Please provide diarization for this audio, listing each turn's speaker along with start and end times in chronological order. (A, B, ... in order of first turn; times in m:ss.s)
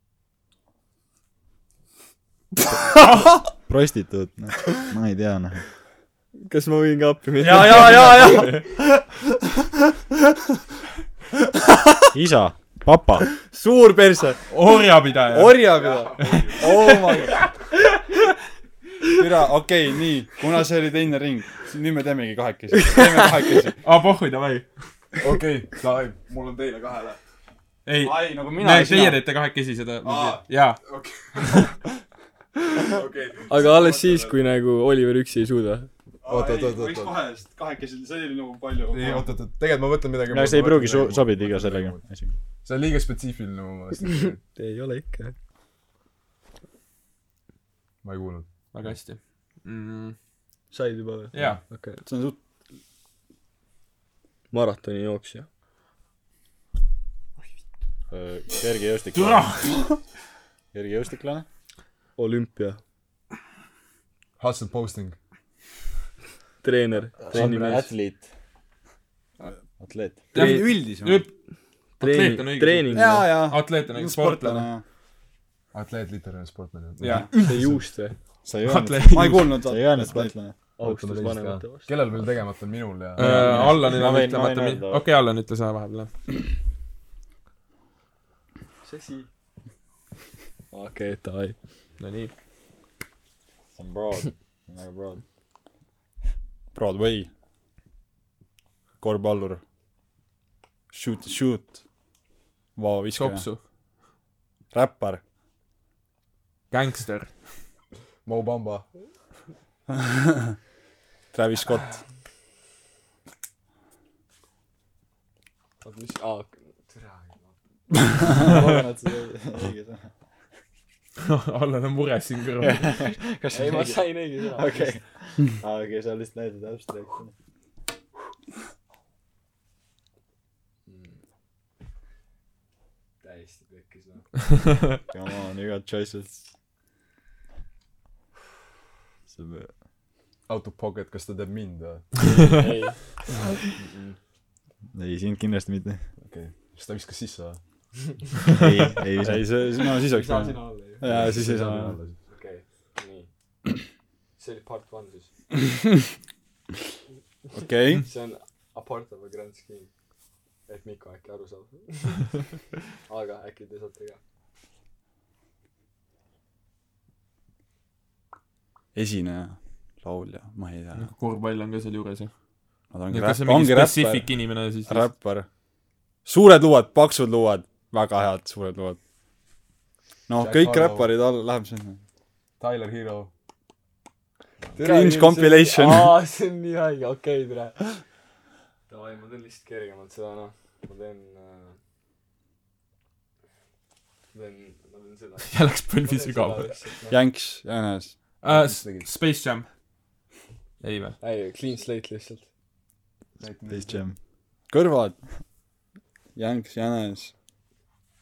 0:03.5-0:05.6 A
0:06.4-0:08.6 B
0:07.4-0:09.2 C
0:11.6-0:11.9 C
0:12.1-0:13.3 A
0:13.3-0:14.5 C
0:14.5-0:17.5 D
0:15.3-0:17.4 C
0:15.8-0:16.5 E
0:19.1-0:23.8 C
0:23.8-0:24.7 D
0:25.2-0:27.2 E
0:27.8-0:30.8 D
0:28.0-0:29.2 C
0:30.0-0:30.4 C
0:30.9-0:31.6 E
0:31.4-0:31.6 D
0:32.9-0:34.3 E
0:33.5-0:35.9 B
0:33.7-0:34.1 C
0:36.2-0:37.2 E
0:36.2-0:39.3 C
0:38.9-0:42.1 E
0:40.3-0:42.3 A
0:42.6-0:44.4 E
0:44.5-0:45.3 B
0:48.0-0:48.5 E
0:48.7-0:50.2 D
0:50.7-0:52.4 C
0:51.0-0:51.3 A
0:51.3-0:51.6 D
0:51.7-0:52.0 B
0:54.5-0:55.5 B
0:58.1-0:59.8 A
0:59.1-0:59.8 D
1:00.7-1:01.4 A
1:02.2-1:02.8 B
1:04.4-1:05.2 E
1:06.6-1:07.9 B
1:07.2-1:08.3 A
1:09.8-1:10.3 A
1:10.3-1:11.2 C
1:10.3-1:11.3 D
1:12.0-1:14.7 D
1:12.0-1:13.3 B
1:12.9-1:14.8 C
1:15.7-1:17.8 E
1:17.0-1:17.3 D
1:17.3-1:18.2 B
1:18.4-1:20.5 A
1:18.6-1:19.5 D
1:19.0-1:20.4 C
1:20.1-1:21.9 B
1:20.8-1:23.8 E
1:23.2-1:26.1 D
1:23.2-1:25.0 A
1:23.2-1:23.7 C
1:28.8-1:29.3 B
1:30.7-1:31.6 B
1:32.0-1:32.3 D
1:33.8-1:35.2 A
1:36.7-1:37.3 C
1:39.0-1:39.6 C
1:40.9-1:41.8 C
1:42.8-1:43.4 C
1:43.1-1:43.6 D
1:44.7-1:45.2 C
1:46.7-1:47.3 D
1:48.2-1:48.9 E
1:51.3-1:52.0 C
1:55.8-1:57.6 B
1:58.3-2:00.1 A
2:01.2-2:03.1 D
2:02.6-2:07.3 A
2:03.5-2:05.0 B
2:10.9-2:11.2 B
2:13.2-2:14.4 B
2:15.1-2:16.5 A
2:19.3-2:19.7 A
2:20.5-2:22.5 E
2:22.2-2:23.0 B
2:23.8-2:24.2 B
2:24.9-2:26.1 A
2:26.2-2:27.6 E
2:28.6-2:29.5 A
2:29.2-2:32.0 C
2:30.1-2:31.0 B
2:31.0-2:32.2 E
2:32.2-2:33.3 B
2:34.4-2:35.3 B
2:37.5-2:38.0 C
2:38.0-2:39.9 B
2:40.6-2:44.2 B
2:48.9-2:51.1 C
2:50.9-2:52.3 D
2:52.9-2:55.1 D
2:52.9-2:55.5 C
2:56.2-2:59.0 C
3:00.3-3:02.0 C
3:00.4-3:01.1 E
3:02.6-3:03.3 E
3:04.8-3:08.0 B
3:04.8-3:06.2 C
3:08.9-3:11.8 B
3:14.3-3:17.2 B
3:15.4-3:16.7 D
3:17.1-3:18.3 C
3:18.4-3:19.7 D
3:18.4-3:19.1 E
3:20.8-3:21.2 D
3:21.2-3:22.4 B
3:23.4-3:24.0 E
3:23.7-3:24.2 A
3:24.7-3:25.3 C
3:26.3-3:27.3 C